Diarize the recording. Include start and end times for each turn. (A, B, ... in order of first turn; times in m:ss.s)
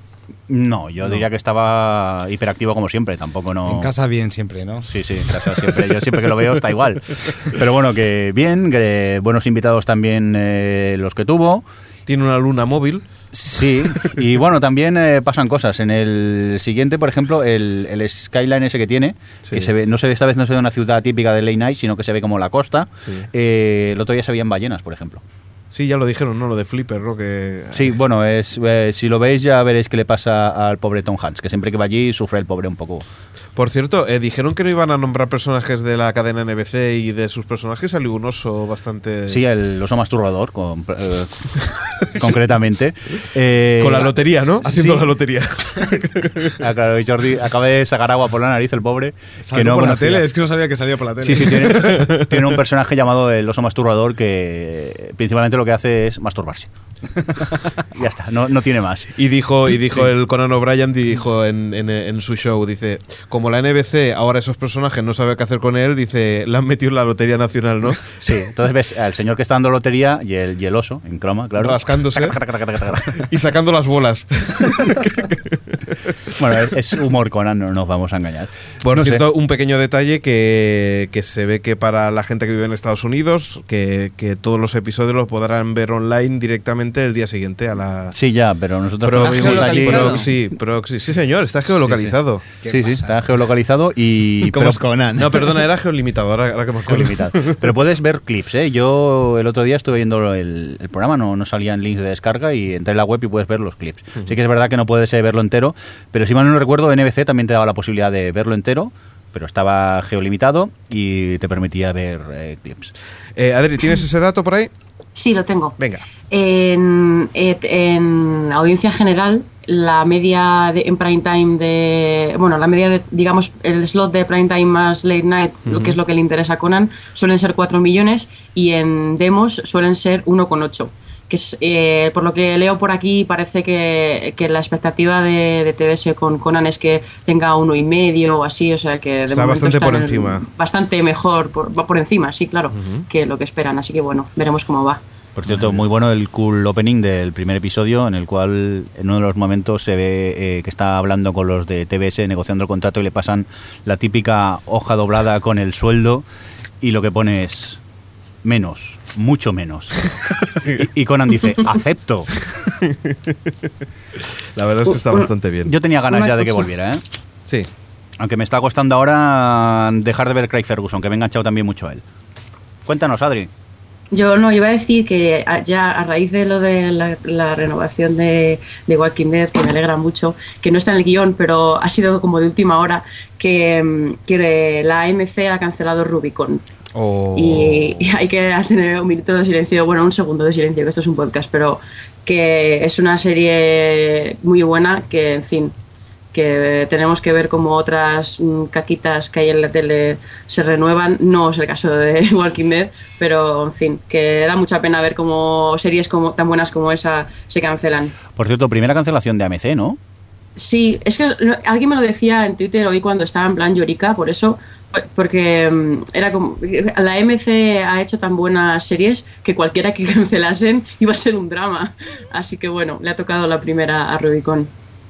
0:00.5-0:03.9 A
0:03.7-0:04.9 B
0:04.9-0:11.6 A
0:12.1-0:13.0 C
0:13.3-0:25.2 A
0:25.7-0:28.0 C
0:27.7-0:33.0 A
0:33.6-0:39.4 C
0:39.3-0:41.5 A
0:42.0-0:44.1 A
0:43.8-0:46.5 C
0:44.7-0:45.0 A
0:44.7-0:45.0 B
0:46.6-0:50.3 A
0:49.4-0:52.1 B
0:51.2-0:56.7 A
0:51.8-0:52.2 C
0:58.0-0:59.1 A
0:59.2-1:08.1 C
1:08.2-1:13.2 A
1:11.6-1:12.4 C
1:13.2-1:15.8 C
1:16.4-1:19.2 A
1:18.8-1:28.2 C
1:28.1-1:30.2 A
1:29.0-1:32.5 C
1:29.2-1:30.3 D
1:31.8-1:34.8 A
1:32.7-1:33.1 B
1:34.4-1:35.4 D
1:35.2-1:37.6 C
1:36.9-1:52.9 A
1:53.4-1:54.7 C
1:55.2-1:55.8 E
1:55.8-1:56.0 C
1:56.3-2:25.0 E
2:05.7-2:06.0 C
2:19.3-2:20.5 C
2:22.7-2:23.0 C
2:25.4-2:36.2 A
2:25.5-2:25.8 C
2:36.8-2:37.8 A
2:38.4-2:40.1 A
2:40.7-2:42.3 A
2:42.7-2:43.3 C
2:44.6-2:45.7 C
2:44.9-2:45.3 E
2:45.6-2:47.0 A
2:46.1-2:46.7 E
2:48.2-2:52.0 A
2:52.9-2:53.5 A
2:54.1-3:06.6 E
3:06.9-3:08.1 C
3:07.4-3:15.7 E
3:16.3-3:28.1 E
3:28.4-3:30.0 A
3:30.6-3:44.7 E